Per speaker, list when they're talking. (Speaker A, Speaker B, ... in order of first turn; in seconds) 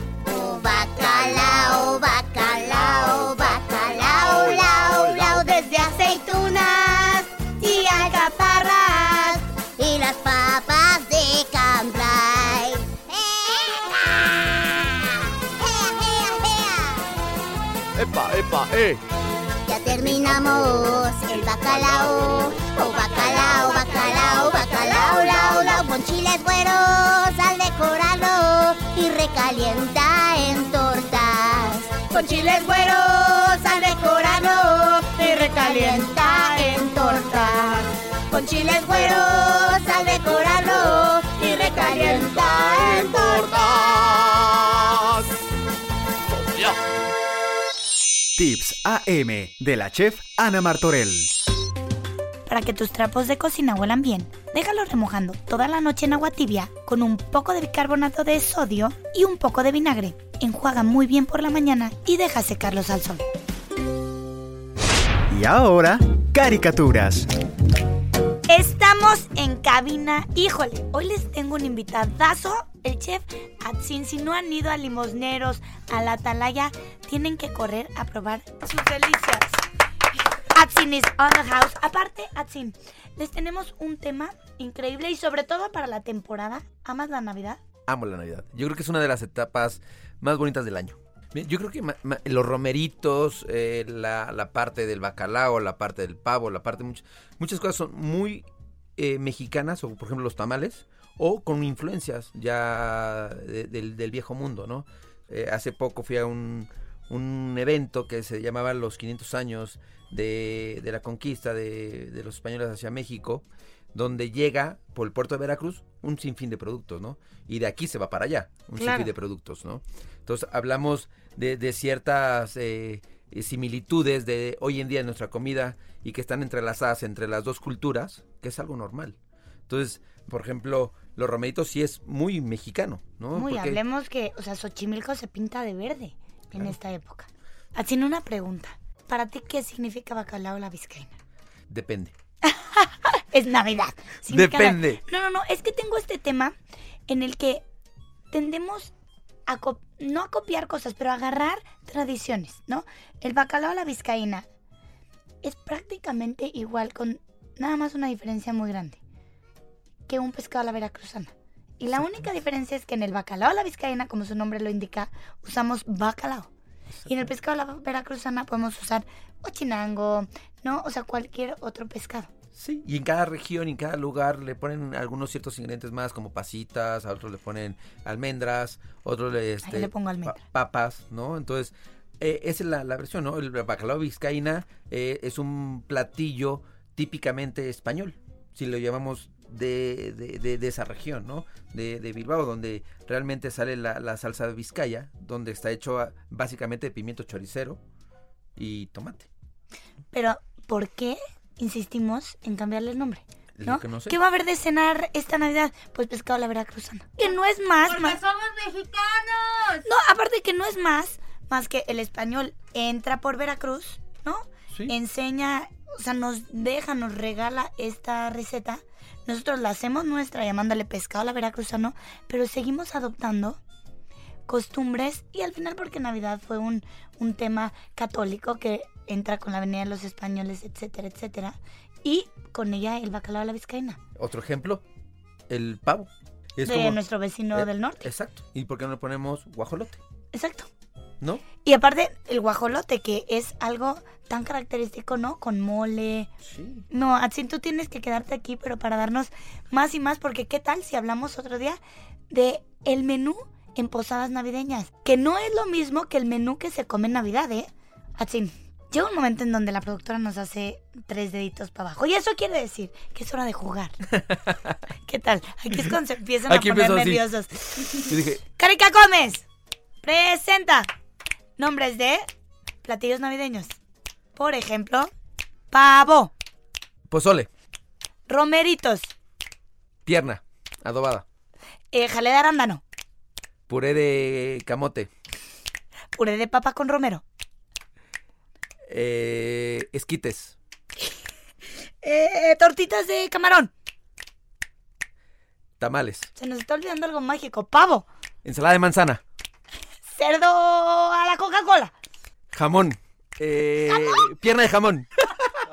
Speaker A: 0.3-17.0, 19.7-43.7
Speaker B: 1.3-1.8, 2.4-5.3, 18.0-19.0, 19.8-25.9, 41.6-45.2
Speaker C: 7.8-8.6, 35.3-37.8, 52.5-63.2, 68.5-79.6, 80.5-87.6, 118.8-119.1, 133.3-141.1, 142.4-146.5, 147.1-147.6, 148.3-148.9, 149.5-154.4, 155.4-159.0, 160.1-166.5, 167.1-172.3, 179.6-180.4, 200.1-208.2, 209.8-223.6, 224.5-234.0, 236.7-238.1, 240.3-240.7, 241.5-246.3, 246.9-251.8, 252.3-264.0, 265.1-269.4, 270.0-270.9, 271.6-272.2, 272.8-273.7, 274.3-275.1, 275.7-276.3, 278.3-279.1, 281.9-282.8, 286.1-287.2, 292.0-293.7, 296.4-298.1, 300.1-301.9, 303.9-304.2
Speaker D: 48.4-51.3, 65.3-67.3
Speaker E: 87.9-98.5, 99.0-129.2, 129.7-133.8, 141.7-142.1, 144.3-145.0, 172.5-197.8, 198.6-199.3, 203.6-204.2, 234.2-234.8, 235.5-237.0, 237.5-240.0, 241.2-241.4, 246.4-246.8, 264.2-264.7, 266.5-268.4, 277.1-277.5, 280.0-281.2, 283.7-285.1, 288.9-290.6, 295.8-296.3, 298.4-299.2, 302.5-305.1
Speaker F: 207.8-209.8